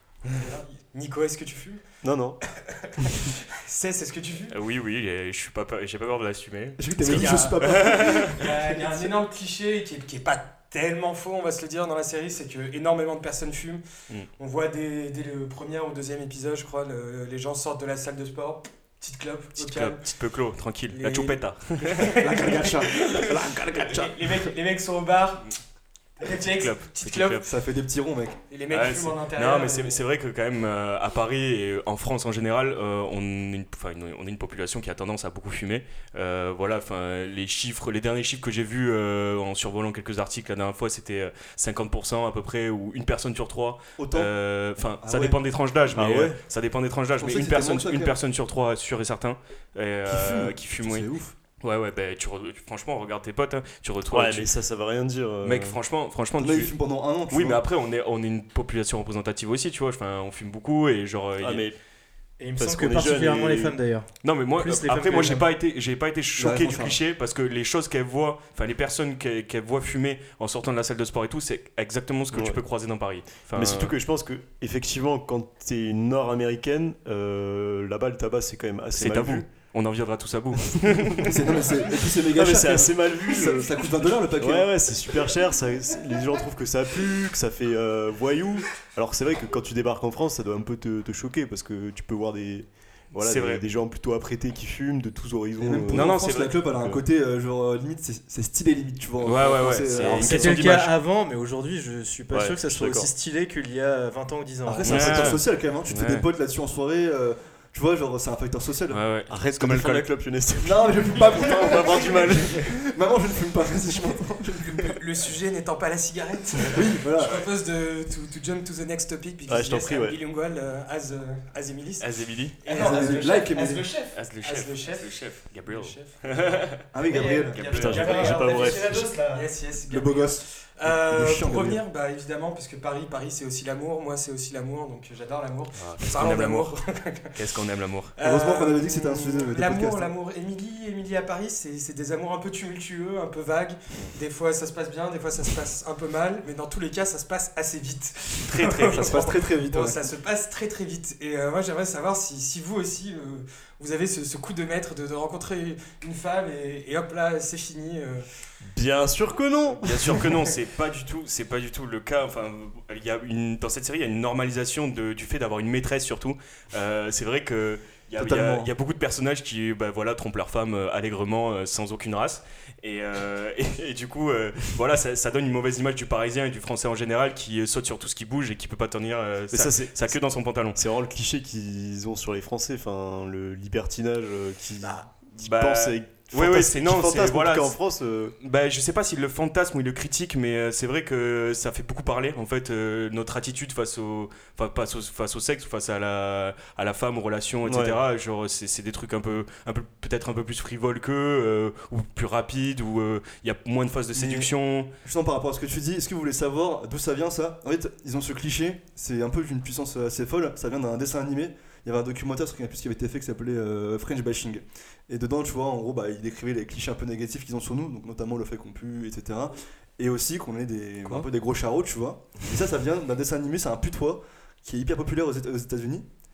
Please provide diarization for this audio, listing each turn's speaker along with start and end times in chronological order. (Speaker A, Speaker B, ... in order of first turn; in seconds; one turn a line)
Speaker A: 0.3-1.8
Speaker B: 2.0-2.4
Speaker A: 2.4-4.5
Speaker C: 4.5-8.4
Speaker D: 6.8-9.1
Speaker A: 7.0-13.8
Speaker A: 14.4-20.0
Speaker C: 19.6-22.1
Speaker A: 20.9-25.5
Speaker D: 22.1-24.5
Speaker A: 26.2-27.4
Speaker C: 26.4-27.4
Speaker D: 27.4-28.4
Speaker A: 28.5-30.0
Speaker C: 28.7-51.1
Speaker D: 44.0-44.3
Speaker D: 45.0-45.4
Speaker B: 46.0-46.4
Speaker D: 47.2-48.1
Speaker D: 50.1-51.3
Speaker C: 51.6-54.5
Speaker B: 54.1-55.8
Speaker C: 55.4-56.7
Speaker D: 56.4-57.6
Speaker C: 57.3-61.7
Speaker B: 61.4-61.8
Speaker E: 62.4-65.4
Speaker B: 62.5-63.7
Speaker C: 64.2-73.9
Speaker D: 66.4-67.0
Speaker B: 72.3-72.6
Speaker B: 73.5-79.5
Speaker C: 79.0-81.6
Speaker D: 81.2-84.7
Speaker B: 82.3-96.2
Speaker C: 93.2-93.6
Speaker D: 95.6-100.6
Speaker C: 95.9-96.6
Speaker C: 99.2-100.9
Speaker E: 100.0-105.0
Speaker B: 102.3-103.1
Speaker D: 104.6-109.0
Speaker B: 104.8-105.4
Speaker C: 104.8-106.2
Speaker C: 108.9-110.1
Speaker B: 109.3-112.7
Speaker D: 110.6-115.0
Speaker A: 114.7-137.4
Speaker C: 116.6-117.5
Speaker D: 116.7-117.4
Speaker B: 119.5-120.2
Speaker C: 122.0-122.6
Speaker D: 122.7-123.9
Speaker C: 124.1-128.4
Speaker D: 126.9-129.0
Speaker B: 127.7-129.2
Speaker D: 129.9-131.8
Speaker C: 135.8-136.7
Speaker C: 137.3-138.2
Speaker A: 138.2-158.2
Speaker D: 138.2-140.1
Speaker C: 148.4-149.2
Speaker D: 148.9-150.0
Speaker B: 158.7-160.3
Speaker C: 159.7-180.8
Speaker D: 168.2-168.7
Speaker B: 179.5-180.2
Speaker B: 180.7-188.3
Speaker C: 185.4-187.8
Speaker C: 188.4-204.9
Speaker B: 197.7-198.0
Speaker D: 204.1-204.5
Speaker D: 205.0-226.1